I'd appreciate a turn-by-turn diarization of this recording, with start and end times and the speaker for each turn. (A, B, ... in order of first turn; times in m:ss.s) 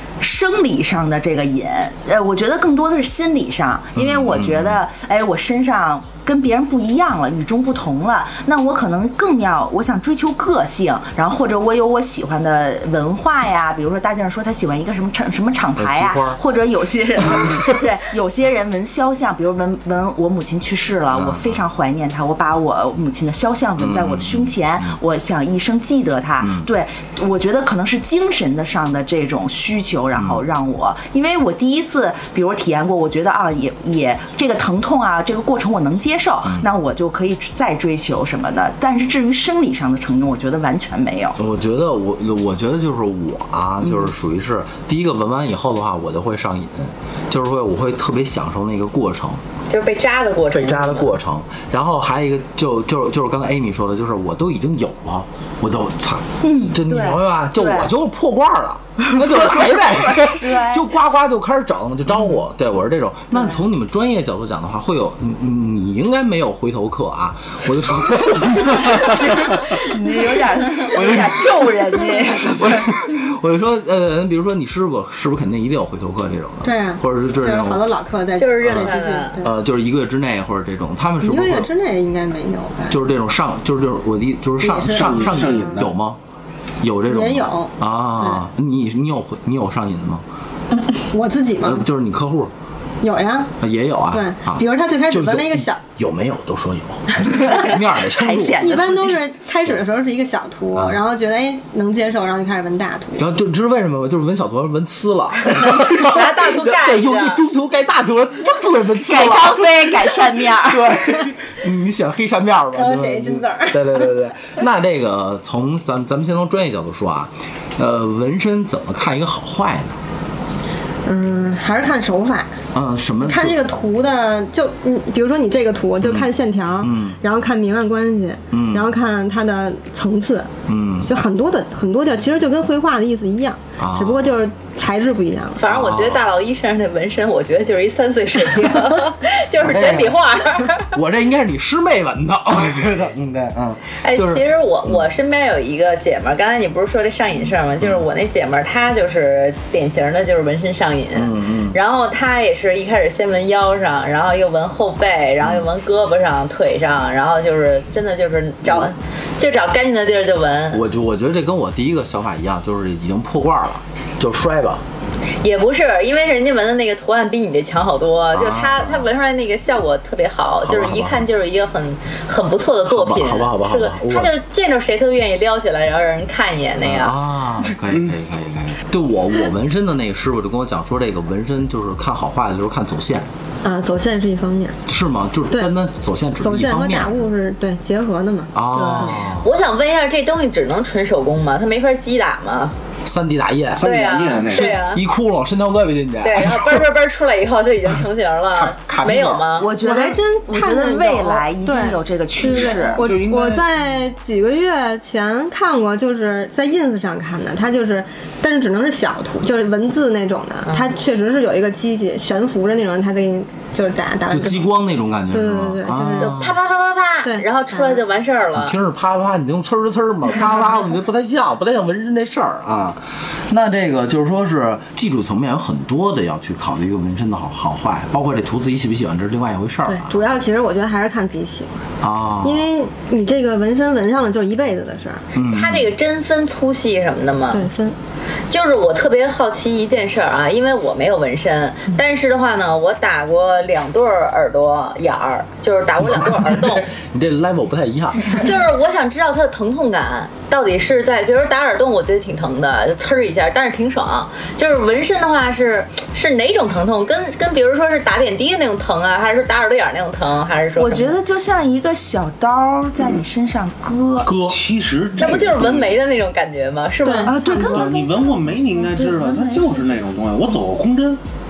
0:00.2-0:41.4 A
0:03.9-0:04.8 B
0:15.8-0:16.4 B
0:17.4-0:17.8 B
0:21.1-0:21.6 B
0:23.8-0:25.0 B
0:26.4-0:26.7 B
0:30.1-0:30.4 B
0:41.4-0:49.4 B
0:49.7-0:51.1 C
0:50.5-1:09.8 B
0:56.4-0:57.9 A
0:59.1-1:00.9 A
1:08.8-1:12.9 A
1:10.8-1:11.7 B
1:12.5-1:17.9 B
1:16.6-1:19.5 D
1:18.4-1:19.4 C
1:18.6-1:21.7 B
1:21.2-1:23.0 D
1:22.9-1:26.2 B
1:24.6-1:25.9 D
1:24.9-1:25.9 E
1:26.8-1:30.2 B
1:27.1-1:28.4 D
1:31.0-1:31.8 D
1:31.6-1:32.5 B
1:33.0-1:33.5 D
1:33.6-1:39.1 B
1:34.1-1:35.8 D
1:37.2-1:39.2 A
1:38.6-1:43.2 D
1:40.7-1:41.0 B
1:43.2-2:00.0 B
1:45.8-1:47.4 C
1:49.0-1:51.2 A
1:52.8-1:53.9 D
2:01.0-2:02.5 D
2:02.7-2:03.7 B
2:03.2-2:10.5 D
2:06.0-2:07.2 B
2:08.5-2:08.9 B
2:10.7-2:11.1 B
2:11.0-2:15.6 D
2:13.8-2:14.4 B
2:15.6-2:20.9 C
2:15.6-2:16.2 B
2:19.6-2:20.2 B
2:20.9-2:25.0 B
2:24.0-2:40.8 C
2:31.1-2:31.8 B
2:35.4-2:35.7 B
2:40.7-2:44.8 B
2:45.4-2:57.2 C
2:48.3-2:49.1 B
2:50.6-2:51.3 B
2:52.9-2:54.3 B
2:56.8-3:03.3 B
3:03.6-3:04.8 D
3:04.8-3:07.2 B
3:06.4-3:09.2 D
3:08.5-3:09.5 B
3:09.4-3:12.7 C
3:13.0-3:13.9 B
3:13.8-3:14.8 E
3:13.8-3:15.0 C
3:14.5-3:16.9 B
3:16.2-3:19.7 C
3:18.5-3:19.5 B
3:19.6-3:23.1 A
3:19.8-3:34.7 D
3:22.4-3:23.6 E
3:34.3-3:36.6 B
3:35.3-3:36.4 D
3:36.2-3:38.8 C
3:37.2-3:38.0 D
3:38.5-3:50.2 B
3:49.9-3:51.8 D
3:52.0-3:52.7 B
3:52.4-3:55.2 D
3:55.3-3:55.9 B
3:55.4-3:57.7 C
3:57.5-3:57.9 D
3:58.5-4:06.9 C
4:06.1-4:08.5 B
4:08.4-4:21.2 C
4:20.8-4:24.4 A
4:24.2-4:24.6 B
4:24.4-4:26.0 E
4:25.2-4:27.3 C
4:27.0-4:28.0 D
4:27.2-4:29.8 A
4:27.6-4:31.2 E